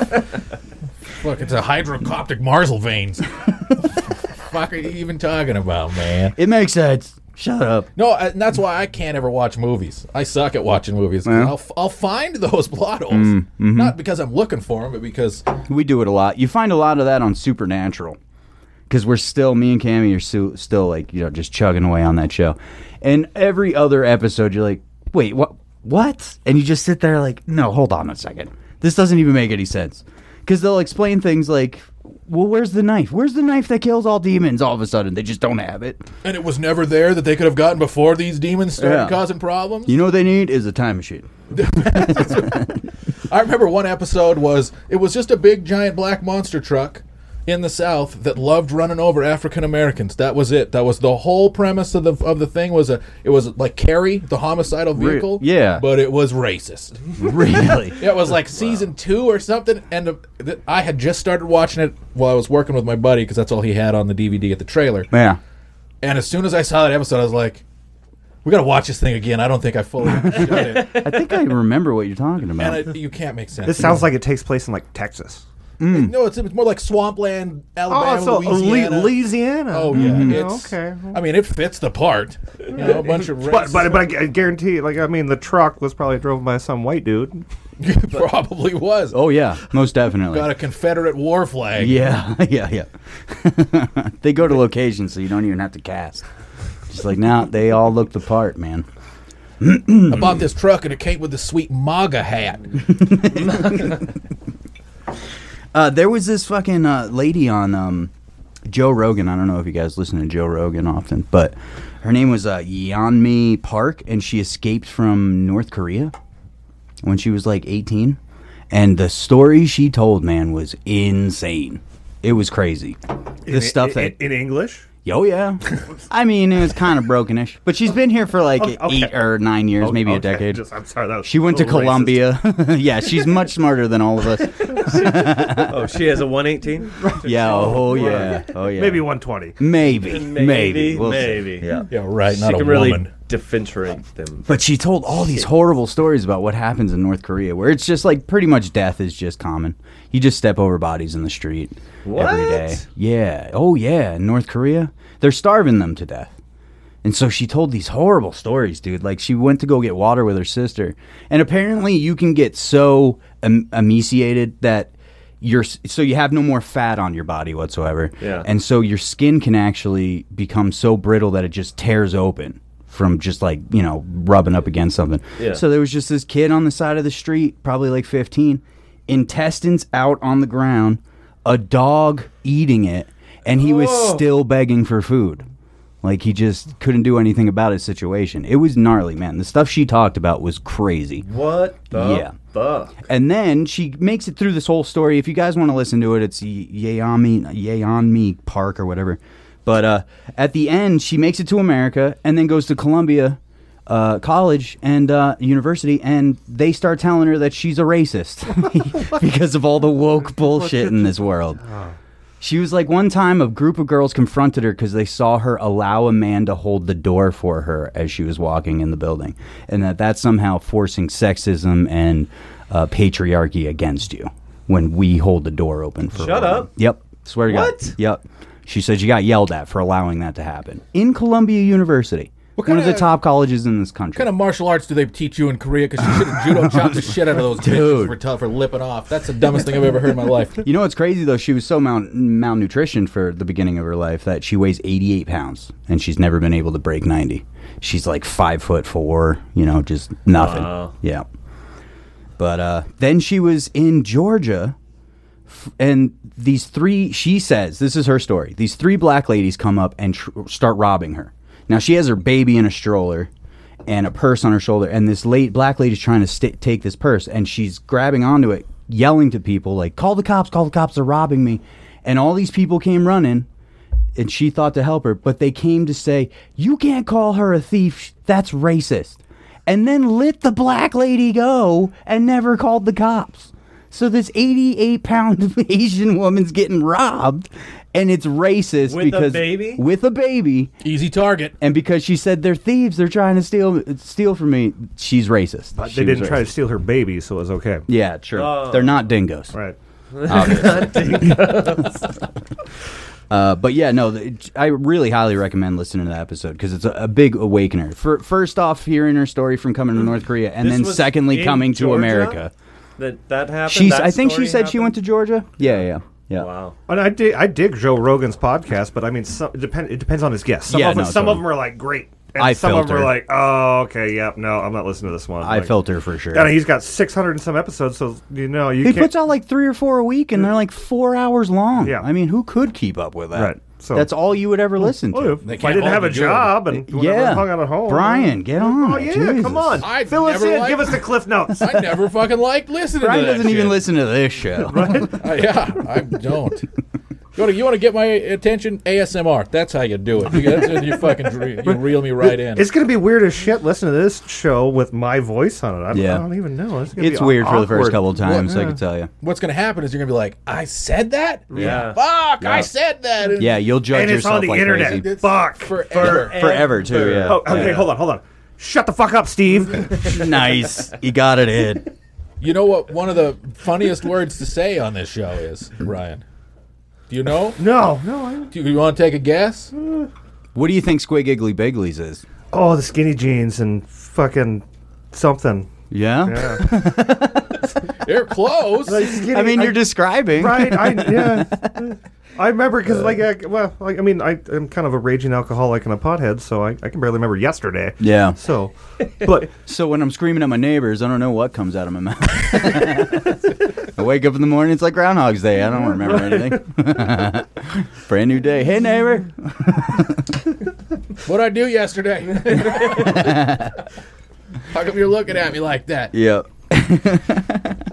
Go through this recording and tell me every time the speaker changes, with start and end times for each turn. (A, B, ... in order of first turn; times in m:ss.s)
0:01.2-0:06.4 A
0:06.4-0:07.9 B
0:08.0-0:15.4 A
0:11.2-0:11.6 B
0:13.1-0:14.0 B
0:15.7-0:18.2 B
0:18.9-0:36.0 B
0:36.2-0:40.0 A
0:38.8-0:39.2 B
0:39.9-0:41.3 B
0:41.5-1:05.1 A
0:42.0-0:42.7 B
0:55.0-0:55.8 B
0:57.2-0:58.0 B
1:05.1-1:05.4 B
1:06.0-1:07.6 A
1:08.4-1:11.4 A
1:10.2-1:12.9 B
1:12.6-1:14.1 A
1:13.6-1:15.4 C
1:15.8-1:16.2 B
1:15.9-1:24.1 A
1:17.9-1:21.2 C
1:19.9-1:20.4 B
1:22.8-1:27.4 C
1:27.8-1:29.2 A
1:29.1-1:30.5 B
1:30.3-1:32.2 A
1:31.8-1:36.2 B
1:36.9-1:38.9 B
1:39.6-1:40.5 B
1:40.1-1:43.4 A
1:43.0-1:43.9 B
1:45.7-1:48.1 B
1:48.7-1:56.1 B
1:57.0-1:58.2 B
1:58.7-2:04.2 B
2:03.5-2:04.9 C
2:05.0-2:10.6 B
2:08.6-2:09.2 C
2:09.8-2:12.4 C
2:11.2-2:15.8 B
2:14.7-2:18.4 D
2:17.0-2:19.6 C
2:17.2-2:21.9 B
2:20.0-2:21.7 D
2:21.9-2:23.1 A
2:22.3-2:24.5 D
2:24.4-2:36.3 B
2:32.0-2:32.8 D
2:37.0-3:05.4 B
2:48.2-2:48.5 D
3:03.5-3:04.2 D
3:06.0-3:11.3 B
3:11.3-3:13.0 D
3:11.9-3:12.4 B
3:13.0-3:31.6 B
3:30.4-3:32.0 C
3:32.4-3:54.3 B
3:46.2-3:46.7 D
3:47.5-3:48.0 D
3:52.6-3:53.2 A
3:54.2-4:00.6 A
3:57.6-3:58.2 B
4:00.6-4:11.3 B
4:10.3-4:10.9 D
4:12.4-4:14.8 B
4:15.5-4:23.3 B
4:23.9-4:33.5 B
4:34.2-4:50.7 B
4:48.9-4:49.8 D
4:50.8-4:51.6 A
4:51.6-4:56.5 B
4:55.8-4:57.9 C
4:57.9-4:59.6 B
4:58.3-4:59.1 D
5:00.1-5:02.1 D
5:00.3-5:01.6 B
5:03.3-5:12.5 B
5:10.6-5:12.4 D
5:13.0-5:14.9 D
5:13.7-5:16.5 B
5:16.3-5:16.8 D
5:16.9-5:25.8 C
5:20.7-5:21.5 B
5:22.4-5:23.2 B
5:25.4-5:26.6 B
5:26.3-5:29.2 C
5:28.8-5:35.4 B
5:31.8-5:32.1 C
5:33.3-5:34.1 C
5:34.7-5:41.8 C
5:35.4-5:36.6 A
5:36.7-5:39.8 B
5:39.8-5:43.9 A
5:43.0-5:45.2 B
5:44.7-5:45.2 C
5:45.1-5:46.7 A
5:47.4-5:52.7 A
5:51.6-5:58.7 C
5:55.9-5:56.3 B
5:57.0-5:59.1 B
5:58.2-6:03.6 A
6:01.5-6:02.0 D
6:01.6-6:01.9 C
6:02.4-6:02.7 B
6:03.4-6:05.1 B
6:03.9-6:06.3 C
6:04.8-6:06.4 A
6:05.9-6:07.9 D
6:06.0-6:07.8 B
6:07.2-6:10.2 C
6:10.0-6:11.9 B
6:12.4-6:16.2 A
6:17.1-6:17.7 A
6:17.6-6:18.5 C
6:18.5-6:19.7 A
6:19.7-6:20.1 C
6:20.6-6:22.2 B
6:22.5-6:25.7 C
6:25.9-6:27.6 B
6:26.2-6:26.6 C
6:28.0-6:29.1 A
6:28.8-6:39.5 C
6:29.3-6:31.8 B
6:38.0-6:38.4 B
6:39.6-6:50.3 B
6:45.7-6:46.6 C
6:51.2-6:53.6 A
6:53.1-6:53.8 B
6:54.7-6:56.1 A
6:56.1-6:57.8 B